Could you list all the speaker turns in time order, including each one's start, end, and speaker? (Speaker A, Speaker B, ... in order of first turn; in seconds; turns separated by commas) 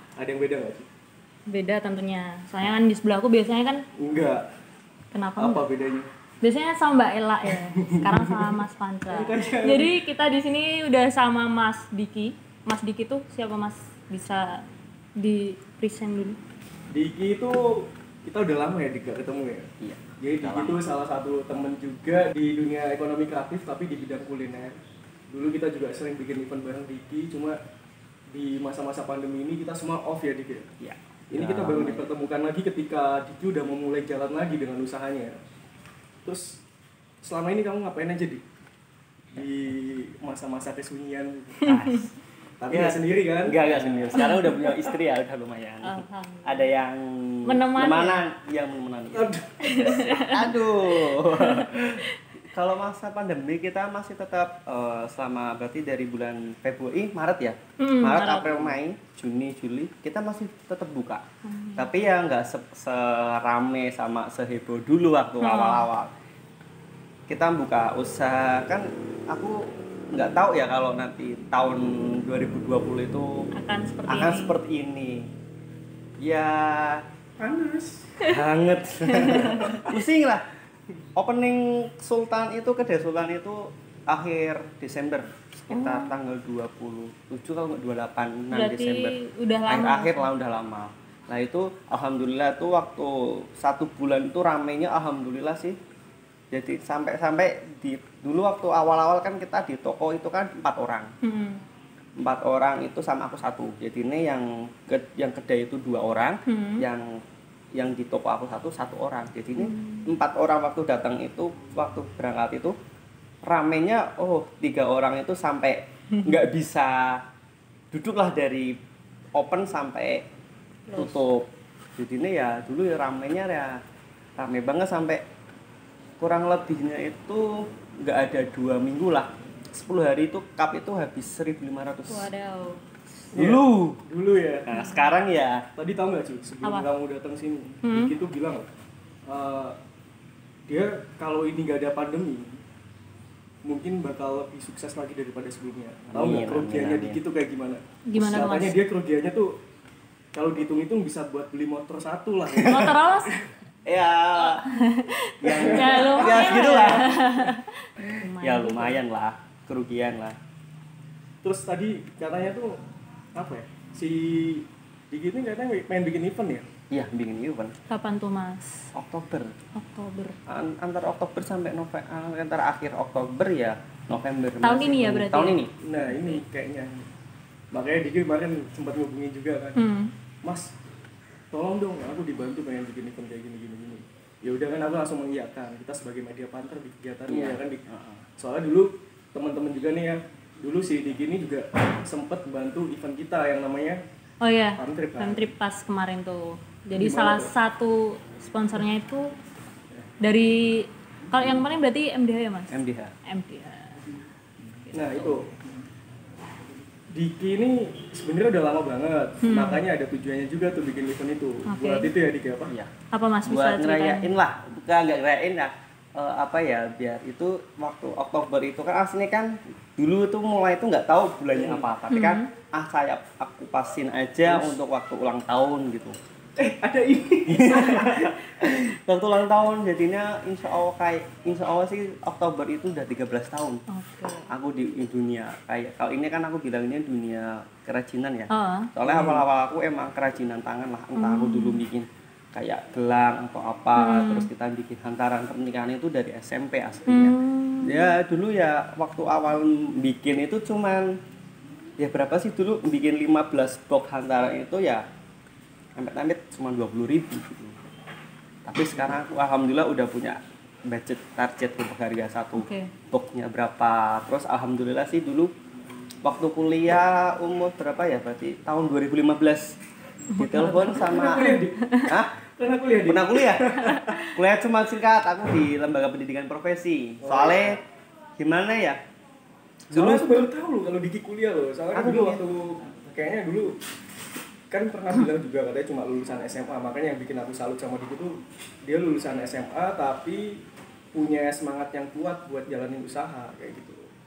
Speaker A: 0.2-0.9, Speaker B: 1.5-3.9, Speaker A: 4.0-4.5, Speaker B: 5.1-5.6, Speaker A: 5.4-6.1, Speaker B: 6.4-14.6, Speaker A: 7.7-8.6, Speaker A: 9.1-9.9, Speaker B: 15.2-16.4, Speaker A: 16.9-19.7, Speaker C: 19.8-20.8, Speaker A: 20.2-24.8, Speaker A: 25.3-27.6, Speaker A: 28.3-30.7, Speaker C: 30.8-32.1, Speaker A: 31.3-35.4, Speaker A: 36.2-36.6, Speaker A: 37.2-38.4, Speaker A: 39.4-41.7, Speaker C: 41.6-42.1, Speaker A: 42.6-44.2, Speaker C: 42.7-61.2, Speaker B: 44.2-44.9, Speaker B: 45.8-46.7, Speaker B: 47.5-48.2, Speaker A: 49.1-49.6, Speaker B: 49.6-52.1, Speaker B: 57.8-58.7, Speaker B: 61.5-61.9, Speaker C: 61.8-66.1, Speaker B: 65.4-65.9, Speaker C: 67.3-73.5, Speaker B: 73.5-74.6, Speaker C: 74.1-75.3, Speaker C: 76.2-77.1, Speaker A: 77.4-78.1, Speaker C: 78.2-80.5, Speaker B: 79.1-79.8, Speaker C: 81.2-89.1, Speaker B: 85.7-86.1, Speaker B: 88.5-90.3, Speaker C: 89.7-95.8, Speaker C: 96.5-101.1, Speaker B: 101.2-101.6, Speaker C: 102.2-107.2, Speaker B: 106.5-106.9, Speaker C: 107.7-112.8, Speaker B: 109.6-110.1, Speaker C: 113.5-117.2, Speaker C: 117.9-118.8, Speaker C: 119.3-120.3, Speaker B: 120.9-121.2, Speaker C: 121.0-123.8, Speaker C: 124.4-125.2, Speaker C: 126.2-132.3, Speaker B: 132.1-132.8, Speaker C: 133.3-134.0, Speaker A: 133.3-134.7, Speaker C: 134.7-135.7, Speaker B: 134.7-135.1, Speaker A: 135.8-138.7, Speaker B: 137.8-138.1, Speaker A: 139.3-139.8, Speaker A: 140.7-142.6, Speaker A: 143.6-149.6, Speaker C: 146.1-147.2, Speaker B: 148.1-148.8, Speaker A: 150.3-153.5, Speaker C: 152.6-152.9, Speaker B: 152.7-153.3, Speaker C: 153.9-154.7, Speaker B: 154.4-159.0, Speaker C: 155.4-157.1, Speaker A: 155.5-157.0, Speaker C: 158.4-160.4, Speaker A: 161.4-162.8, Speaker A: 163.3-166.7, Speaker C: 166.9-167.8, Speaker B: 167.9-168.8, Speaker C: 168.9-169.6, Speaker B: 169.8-170.4, Speaker C: 170.5-175.7, Speaker B: 174.6-175.6, Speaker A: 175.8-177.1, Speaker B: 176.1-176.4, Speaker A: 177.7-179.8, Speaker B: 179.8-180.1, Speaker A: 180.4-180.7, Speaker A: 181.5-187.8, Speaker C: 187.3-188.2, Speaker A: 188.4-194.0, Speaker B: 194.4-199.3, Speaker A: 194.8-195.5, Speaker A: 197.0-197.5, Speaker B: 200.2-204.0, Speaker C: 202.7-203.1, Speaker B: 204.8-205.4, Speaker A: 204.9-205.5, Speaker A: 207.1-212.7, Speaker B: 209.4-209.8, Speaker B: 211.7-212.1, Speaker C: 212.7-212.9, Speaker B: 213.1-214.3, Speaker C: 213.4-226.2, Speaker A: 221.5-221.9, Speaker B: 222.1-222.5, Speaker A: 224.4-224.7, Speaker A: 226.6-228.5, Speaker C: 227.5-233.8, Speaker B: 233.9-234.5, Speaker C: 234.5-251.2, Speaker B: 238.5-238.9, Speaker A: 239.0-239.4, Speaker B: 241.2-241.8, Speaker B: 244.0-244.5, Speaker B: 247.1-248.1, Speaker C: 252.0-255.1, Speaker C: 256.0-257.8, Speaker C: 258.6-265.5, Speaker B: 262.6-262.9, Speaker C: 266.2-269.8, Speaker B: 270.3-272.1, Speaker C: 270.4-272.3, Speaker A: 271.0-271.8, Speaker A: 272.6-274.2, Speaker C: 273.1-277.8, Speaker B: 273.8-274.3, Speaker A: 277.2-277.8, Speaker C: 278.4-279.0, Speaker C: 279.9-280.3, Speaker A: 279.9-283.8, Speaker C: 281.9-282.4, Speaker A: 284.7-290.6, Speaker A: 291.1-294.1